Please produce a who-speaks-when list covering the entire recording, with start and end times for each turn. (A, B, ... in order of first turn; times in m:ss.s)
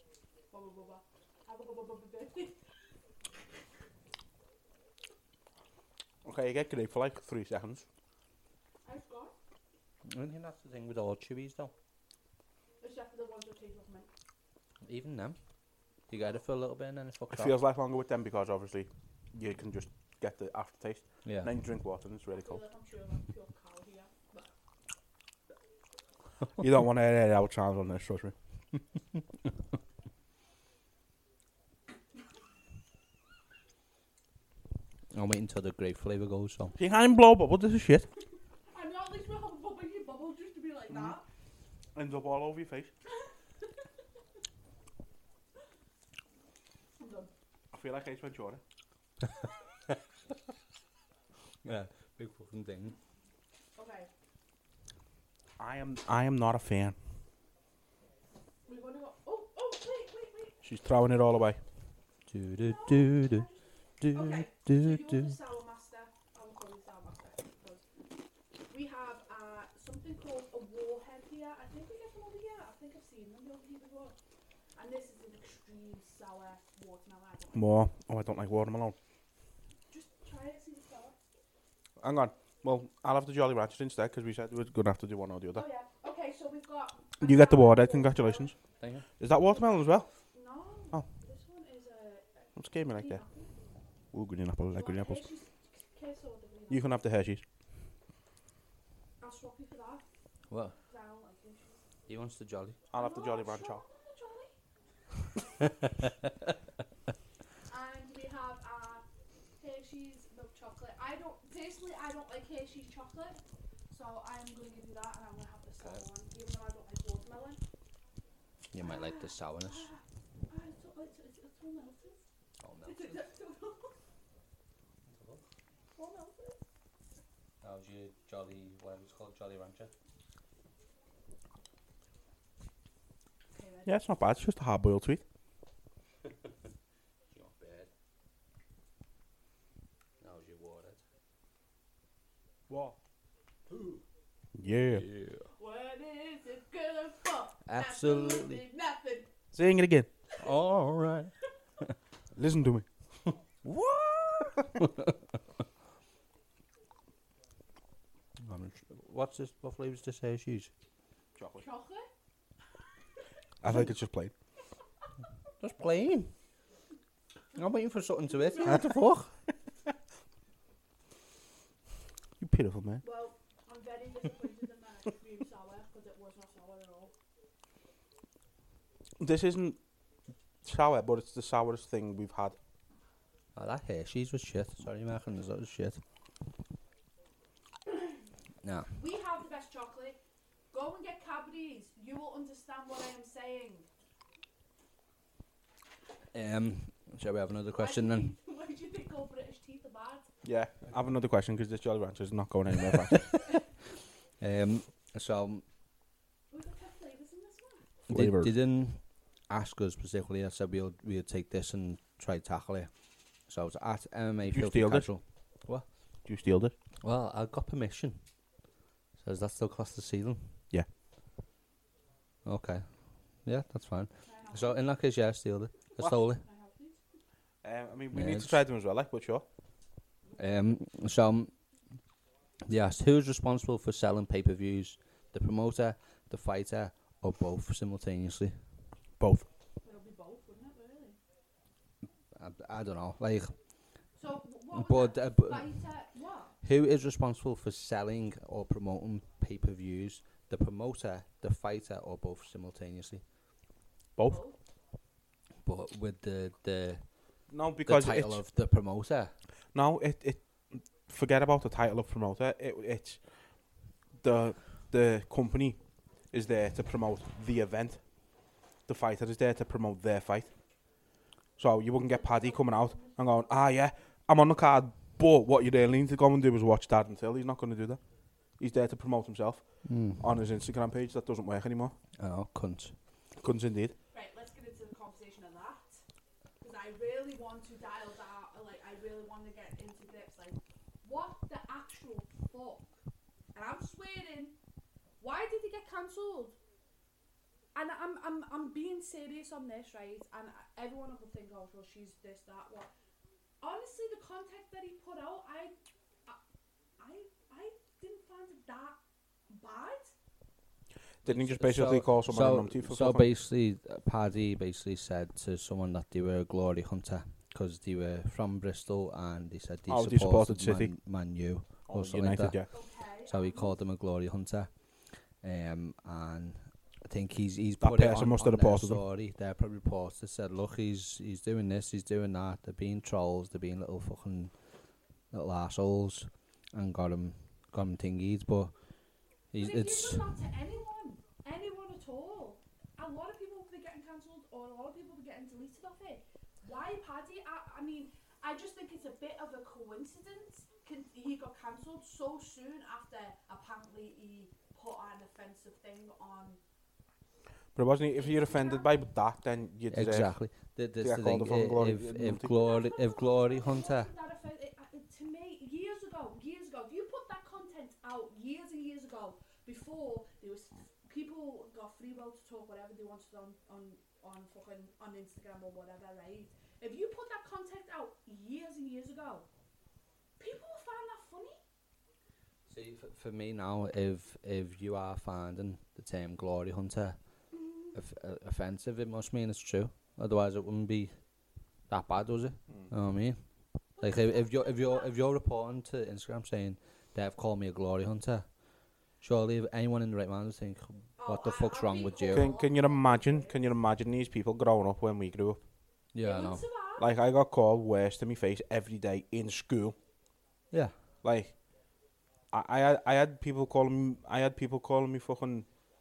0:00.5-0:02.6 A
0:06.2-0:07.9 B
0:08.8-0:09.3 A
0:10.1-0:11.7 C
0:12.8-0:14.1 A
0:14.8-0:15.4 C
0:16.1-0:17.6 C
0:17.3-0:22.6 B
0:21.2-0:21.5 C
0:22.3-0:24.5 A
0:26.6-0:28.3 B
0:35.1-0:36.8 C
0:36.8-0:38.1 B
0:38.7-0:41.3 A
0:42.0-0:42.9 B
0:47.0-0:47.3 A
0:47.7-0:48.6 B
0:51.6-0:53.0 C
0:53.8-0:54.1 A
0:55.6-0:57.0 B
0:58.7-1:00.6 A
1:00.6-1:01.6 B
1:02.3-1:03.5 C
1:02.6-1:07.8 A
1:04.0-1:05.3 C
1:08.7-1:14.2 A
1:14.8-1:17.8 A
1:17.5-1:19.0 B
1:19.9-1:21.2 A
1:22.0-1:25.7 B
1:25.5-1:28.6 A
1:27.2-1:28.6 B
1:28.8-1:29.1 C
1:29.2-1:30.1 B
1:30.3-1:33.6 A
1:32.6-1:33.2 B
1:34.1-1:35.2 B
1:34.7-1:36.9 A
1:36.7-1:37.4 B
1:39.2-1:40.0 A
1:40.5-1:40.8 C
1:40.9-1:41.8 A
1:42.1-1:42.8 C
1:42.9-1:43.8 B
1:42.9-1:44.5 A
1:47.7-1:49.0 A
1:49.6-1:57.6 A
1:58.7-1:59.9 C
1:58.8-2:02.2 A
2:02.6-2:03.2 C
2:02.8-2:03.9 A
2:05.1-2:05.4 C
2:06.0-2:06.6 A
2:07.6-2:09.9 C
2:13.5-2:14.0 A
2:13.9-2:15.2 B
2:17.3-2:17.9 C
2:20.2-2:21.0 C
2:22.7-2:23.0 B
2:23.7-2:24.0 C
2:24.6-2:25.1 B
2:24.9-2:25.5 C
2:25.6-2:29.3 A
2:27.7-2:28.6 C
2:29.5-2:30.1 B
2:30.4-2:31.3 C
2:32.4-2:32.9 B
2:33.6-2:34.9 C
2:38.4-2:40.7 C
2:41.4-2:41.6 B
2:41.6-2:42.1 A
2:43.6-2:44.3 B
2:45.6-2:46.3 C
2:47.5-2:49.4 C
2:52.4-2:53.0 B
2:53.0-2:57.1 A
2:59.2-2:59.8 B
3:00.6-3:02.6 B
3:03.6-3:06.0 C
3:08.6-3:08.9 C
3:08.9-3:10.2 A
3:10.7-3:13.9 A
3:16.3-3:18.3 C
3:17.8-3:20.3 A
3:20.4-3:23.3 B
3:22.9-3:23.2 C
3:24.4-3:25.6 C
3:26.5-3:27.9 A
3:28.1-3:28.5 B
3:28.1-3:32.9 C
3:33.5-3:35.9 C
3:34.4-3:35.1 B
3:36.2-3:36.7 B
3:37.0-3:38.2 C
3:39.2-3:40.6 C
3:42.4-3:46.4 C
3:44.2-3:44.8 A
3:46.4-3:47.0 A
3:47.6-3:49.4 B
3:48.1-3:48.6 C
3:50.4-3:51.5 C
3:52.6-3:58.6 C
3:59.2-3:59.5 B
3:59.8-4:01.2 A
4:02.4-4:03.6 C
4:04.2-4:06.6 A
4:04.7-4:05.8 C
4:06.6-4:13.2 C
4:14.3-4:14.6 A
4:15.6-4:17.1 C
4:17.5-4:18.4 B
4:17.8-4:19.4 C
4:19.7-4:23.5 B
4:24.2-4:25.8 B
4:26.3-4:28.4 B
4:28.9-4:30.5 B
4:31.6-4:38.0 B
4:32.0-4:33.5 A
4:38.6-4:42.0 B
4:39.8-4:40.3 C
4:42.2-4:43.0 C
4:43.4-4:44.0 B
4:44.1-4:46.0 A
4:46.6-4:53.0 A
4:53.6-4:54.6 A
4:55.2-4:56.6 A
4:57.8-5:02.9 A
5:03.6-5:05.8 A
5:07.0-5:09.0 A
5:09.5-5:10.1 A
5:11.2-5:13.3 B
5:11.3-5:24.7 C
5:19.9-5:21.0 B
5:21.9-5:22.7 B
5:22.7-5:23.8 A
5:25.4-5:34.5 C
5:27.8-5:29.0 B
5:35.3-5:38.7 C
5:39.5-5:40.2 C
5:39.6-5:56.6 A
5:57.8-6:00.4 B
5:58.1-5:59.0 A
5:59.9-6:04.1 C
6:01.0-6:02.5 B
6:02.6-6:19.5 A
6:20.4-6:21.6 A
6:22.7-6:27.2 C
6:27.9-6:31.2 C
6:31.9-6:33.4 C
6:34.0-6:35.2 A
6:34.0-6:38.5 C
6:39.2-6:42.5 C
6:41.2-6:43.6 A
6:42.3-6:45.6 B
6:46.1-6:46.6 C
6:46.2-6:47.1 A
6:47.0-6:50.0 B
6:51.2-6:51.6 B
6:52.5-6:55.7 B